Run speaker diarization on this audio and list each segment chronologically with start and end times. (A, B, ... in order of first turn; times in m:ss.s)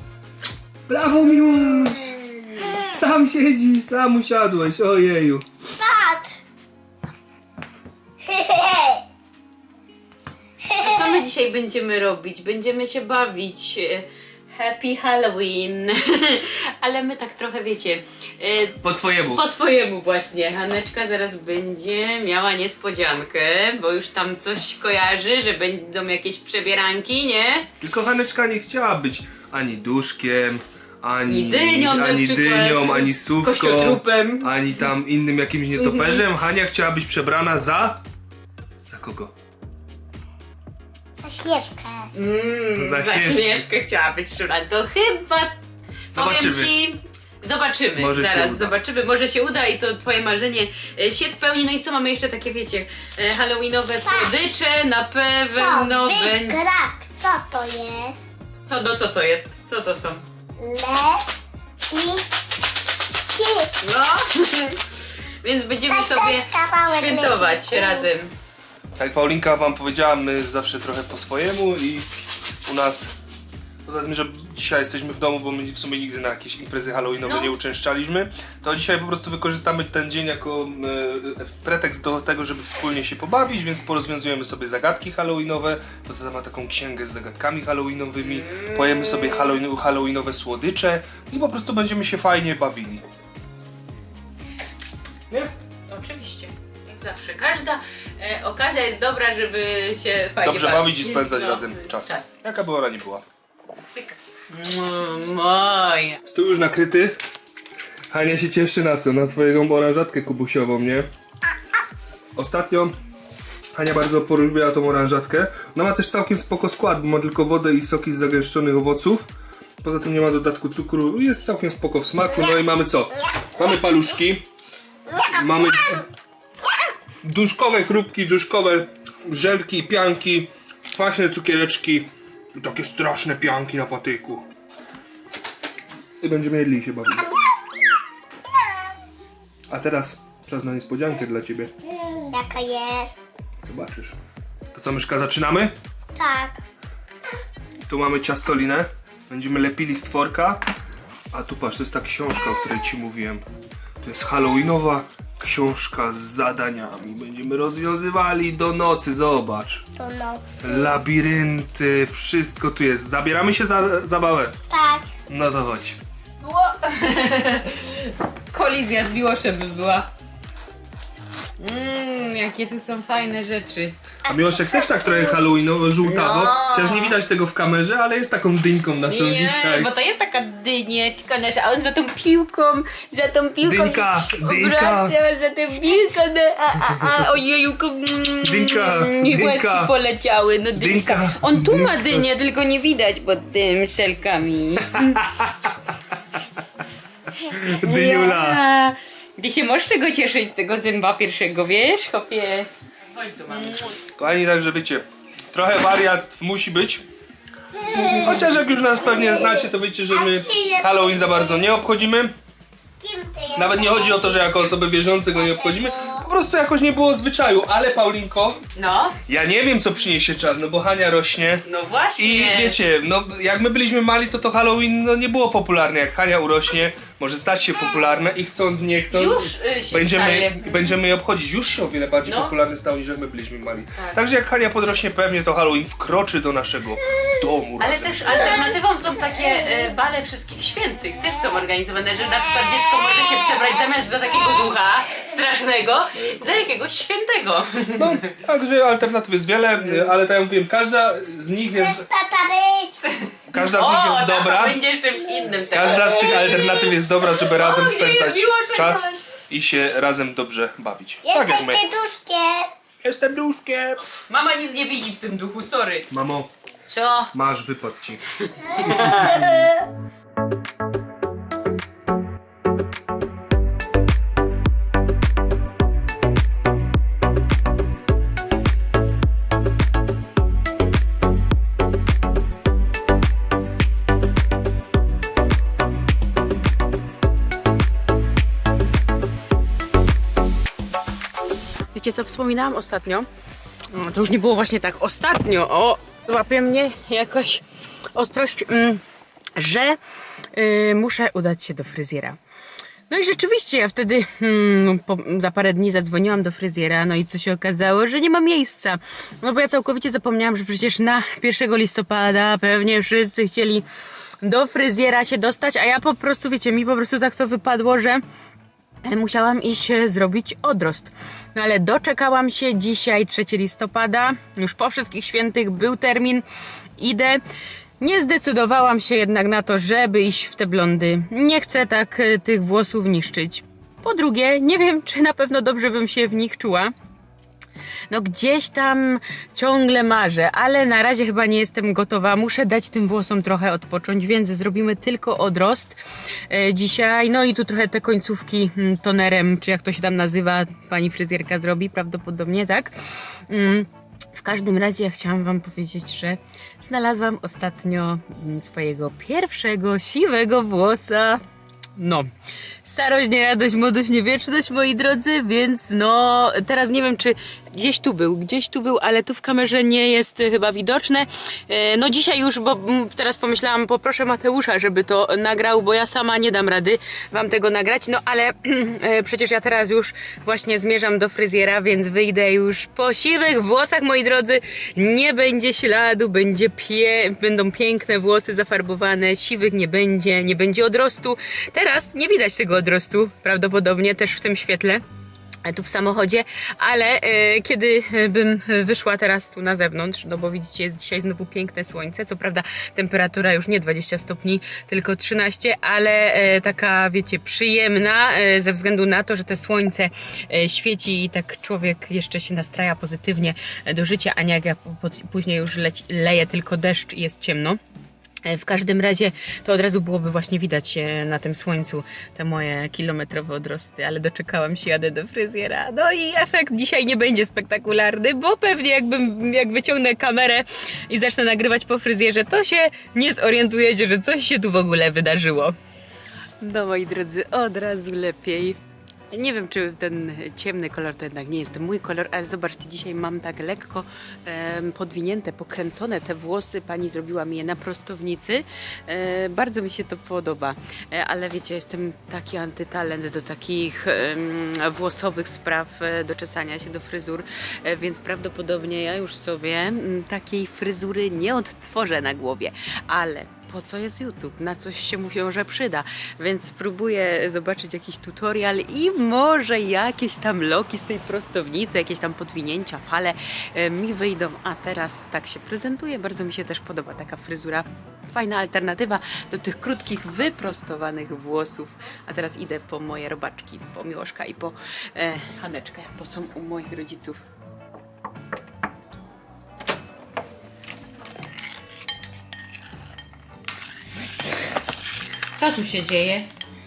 0:00.9-0:02.1 A
0:02.0-0:02.7 B
0:02.7-0:05.4 A
0:05.8-0:06.4 B
0:08.2-0:09.0 B
0:10.6-0:11.2 B
0:10.8-0:27.7 C
0:18.8-0:19.4 A
0:27.8-0:38.0 A
0:31.3-0:34.5 C
0:35.7-0:36.2 C
0:38.9-0:39.3 A
0:41.2-0:42.1 B
0:42.1-0:45.5 C
0:42.8-0:43.6 A
0:46.1-0:46.7 A
0:46.1-0:56.6 C
0:48.0-0:48.7 A
0:54.0-0:54.6 B
0:55.6-0:58.2 B
0:58.6-1:00.2 C
1:00.6-1:01.3 B
1:01.9-1:02.3 B
1:03.3-1:03.8 B
1:03.8-1:04.8 C
1:05.4-1:08.3 C
1:05.9-1:08.0 B
1:09.0-1:12.0 A
1:12.6-1:13.1 A
1:13.8-1:33.0 A
1:17.2-1:17.5 C
1:28.2-1:29.6 C
1:35.9-1:42.4 C
1:40.4-1:43.2 A
1:44.0-1:46.2 C
1:46.2-1:47.2 A
1:48.1-1:51.1 A
1:52.4-1:52.9 A
1:53.7-1:59.3 A
1:59.8-2:04.4 A
2:05.2-2:06.0 A
2:07.2-2:14.4 A
2:16.2-2:17.4 A
2:19.7-2:21.7 A
2:21.9-2:23.1 B
2:23.6-2:24.2 A
2:24.7-2:25.7 A
2:26.2-2:26.6 B
2:27.9-2:30.6 A
2:31.3-2:33.4 A
2:34.0-2:39.8 A
2:40.0-2:40.9 B
2:40.6-2:44.5 A
2:44.7-2:45.1 B
2:45.3-2:46.0 A
2:46.4-2:50.1 C
2:51.6-2:54.0 C
2:54.2-2:59.9 A
2:56.0-2:57.2 C
2:59.0-3:15.2 C
3:03.6-3:05.1 A
3:08.4-3:09.9 A
3:10.8-3:12.2 A
3:15.0-3:15.9 A
3:17.4-3:18.6 A
3:17.8-3:24.0 C
3:24.1-3:27.0 A
3:27.7-3:28.4 B
3:27.9-3:28.4 C
3:28.2-3:32.3 A
3:29.0-3:31.7 B
3:33.0-3:34.7 B
3:33.5-3:38.6 A
3:35.3-3:36.3 B
3:38.7-3:39.2 C
3:39.3-3:41.6 A
3:41.6-3:42.8 C
3:42.2-3:58.7 A
3:49.1-3:50.9 C
3:52.2-3:52.5 C
3:57.8-4:08.2 C
4:06.2-4:06.6 A
4:08.0-4:12.1 A
4:11.7-4:13.0 B
4:13.2-4:16.8 C
4:13.5-4:14.8 A
4:15.7-4:21.8 A
4:16.0-4:16.9 B
4:17.4-4:19.2 C
4:21.2-4:22.7 B
4:23.0-4:24.0 A
4:24.3-4:26.1 C
4:26.1-4:26.5 A
4:26.8-4:27.3 C
4:27.3-4:28.2 A
4:28.5-4:29.6 C
4:28.8-4:29.8 B
4:51.9-4:53.3 C
4:53.9-4:59.0 C
4:59.6-5:00.0 C
5:00.5-5:02.4 C
5:03.1-5:13.8 C
5:14.4-5:18.2 C
5:19.0-5:26.4 C
5:27.0-5:27.4 C
5:28.0-5:36.9 C
5:38.1-6:01.4 C
6:02.0-6:02.3 C
6:02.8-6:35.0 C
6:35.6-6:57.8 C
6:58.4-7:15.8 C
7:16.6-7:18.8 C
7:19.3-8:07.4 C
8:15.5-8:16.5 C